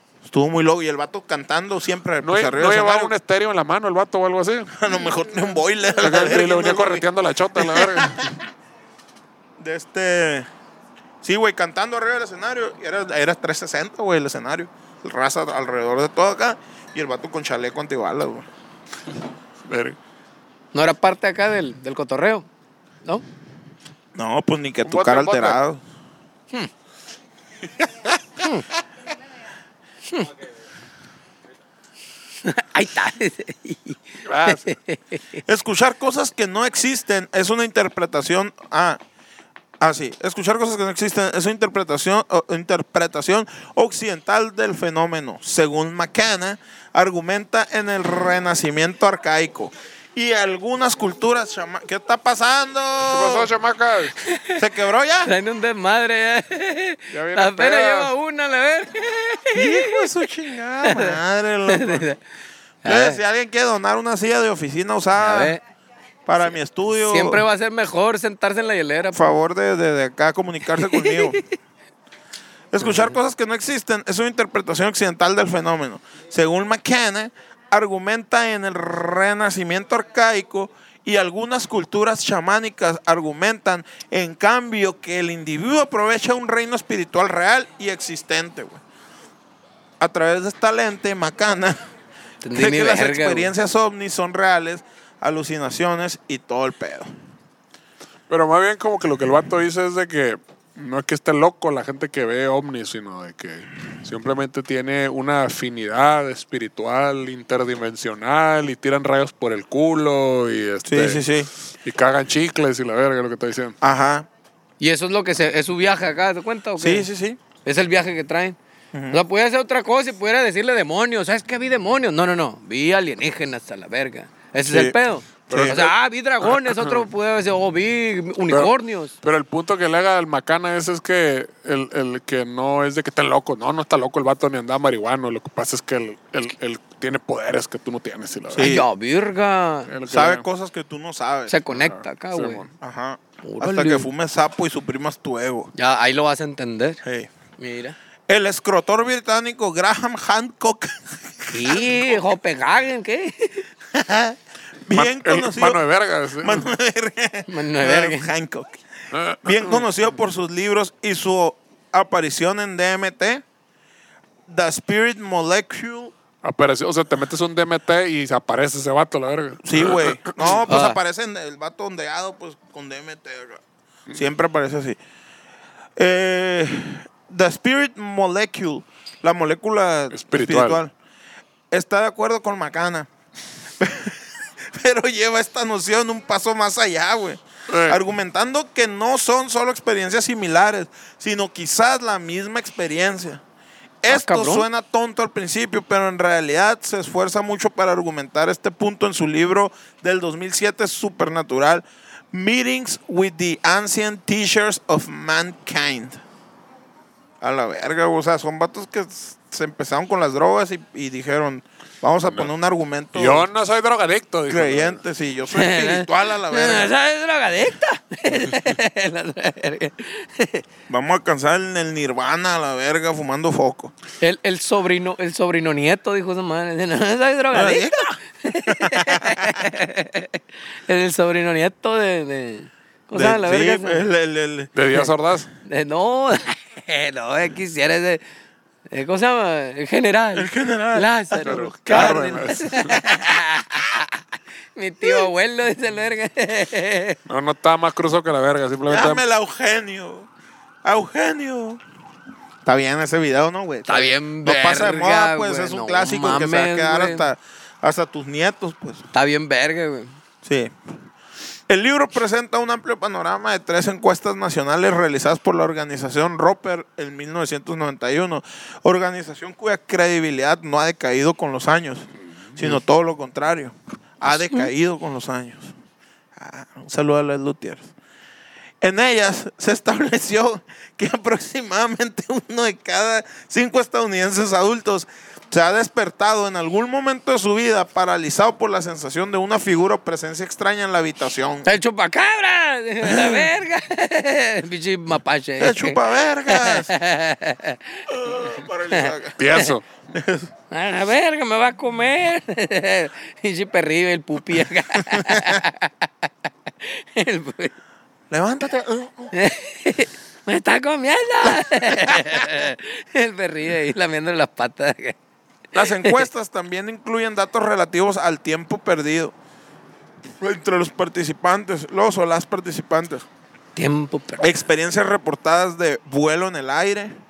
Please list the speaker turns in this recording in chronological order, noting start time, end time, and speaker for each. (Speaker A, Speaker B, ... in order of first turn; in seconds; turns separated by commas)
Speaker A: 0.2-3.1, Speaker B: 2.2-4.7, Speaker A: 4.7-8.3, Speaker B: 6.0-8.3, Speaker A: 9.6-10.5, Speaker A: 11.2-18.5, Speaker B: 19.6-20.0, Speaker C: 20.7-22.5, Speaker A: 24.1-25.8, Speaker B: 24.8-25.6, Speaker C: 28.4-28.6, Speaker C: 32.4-35.4, Speaker B: 34.2-34.7, Speaker A: 35.5-39.0, Speaker A: 39.8-53.5, Speaker B: 53.1-54.1, Speaker C: 54.3-54.6, Speaker A: 54.6-55.3, Speaker C: 55.2-60.0, Speaker B: 57.1-58.1, Speaker A: 59.5-62.0, Speaker C: 60.8-62.2, Speaker C: 62.8-63.2, Speaker A: 62.8-65.6, Speaker C: 65.2-65.6, Speaker A: 66.2-67.4, Speaker C: 67.0-69.3, Speaker A: 69.1-71.4, Speaker C: 70.8-71.4, Speaker A: 72.7-88.8, Speaker A: 90.0-91.8, Speaker C: 92.4-93.5, Speaker A: 92.5-97.1, Speaker B: 98.3-111.2, Speaker A: 110.8-111.5, Speaker B: 111.8-113.8, Speaker A: 113.8-114.3, Speaker C: 114.8-117.1, Speaker A: 116.8-117.4, Speaker C: 117.6-118.6, Speaker A: 118.9-119.2, Speaker C: 119.1-129.1, Speaker A: 124.7-125.0, Speaker A: 125.5-125.9, Speaker B: 125.5-125.9, Speaker B: 126.4-127.0, Speaker B: 128.5-138.8, Speaker A: 138.5-138.8, Speaker C: 138.6-139.9, Speaker B: 139.9-140.4, Speaker A: 140.1-141.5, Speaker C: 141.5-142.6, Speaker B: 141.7-142.7, Speaker A: 142.8-145.7, Speaker C: 143.4-144.1, Speaker C: 145.7-147.0, Speaker A: 147.0-147.3, Speaker C: 147.6-147.9, Speaker A: 148.3-152.2, Speaker C: 151.5-153.7, Speaker A: 153.9-155.8, Speaker B: 154.9-156.7, Speaker A: 156.4-158.8, Speaker C: 157.5-158.3, Speaker B: 159.1-159.9, Speaker A: 159.4-163.4, Speaker A: 164.5-166.1, Speaker B: 166.4-170.7, Speaker A: 169.6-175.0, Speaker C: 170.7-171.0, Speaker A: 176.0-180.9, Speaker B: 180.1-180.8, Speaker A: 181.7-183.1, Speaker A: 183.8-193.4, Speaker B: 187.7-188.0, Speaker A: 194.0-206.2, Speaker C: 194.1-194.7, Speaker A: 207.4-213.5, Speaker B: 213.1-215.0, Speaker A: 214.5-216.9, Speaker C: 215.5-220.6, Speaker A: 220.9-223.9, Speaker C: 224.2-234.0, Speaker A: 227.5-229.6, Speaker A: 233.1-234.7, Speaker B: 234.7-235.5, Speaker C: 235.6-238.2, Speaker C: 238.9-244.2, Speaker A: 240.3-242.3, Speaker B: 241.4-243.0, Speaker C: 244.7-247.2, Speaker B: 247.3-249.2, Speaker A: 248.9-250.3, Speaker A: 250.8-251.8, Speaker A: 252.6-259.0, Speaker C: 253.9-257.3, Speaker C: 259.1-260.2, Speaker A: 260.4-260.7, Speaker A: 261.7-275.7, Speaker C: 274.3-274.7, Speaker A: 276.4-277.9, Speaker A: 278.8-291.7, Speaker C: 291.6-298.1, Speaker A: 293.0-293.5, Speaker A: 295.6-296.9, Speaker A: 298.1-299.4, Speaker C: 298.9-299.7, Speaker B: 299.4-299.8, Speaker A: 300.1-300.5, Speaker C: 300.7-306.3, Speaker A: 305.1-305.5, Speaker C: 306.8-307.7, Speaker A: 308.3-309.3, Speaker C: 309.3-315.2, Speaker A: 311.4-312.6, Speaker A: 315.7-319.3, Speaker C: 315.8-316.2, Speaker A: 320.4-323.2, Speaker C: 323.8-324.5, Speaker A: 324.4-327.1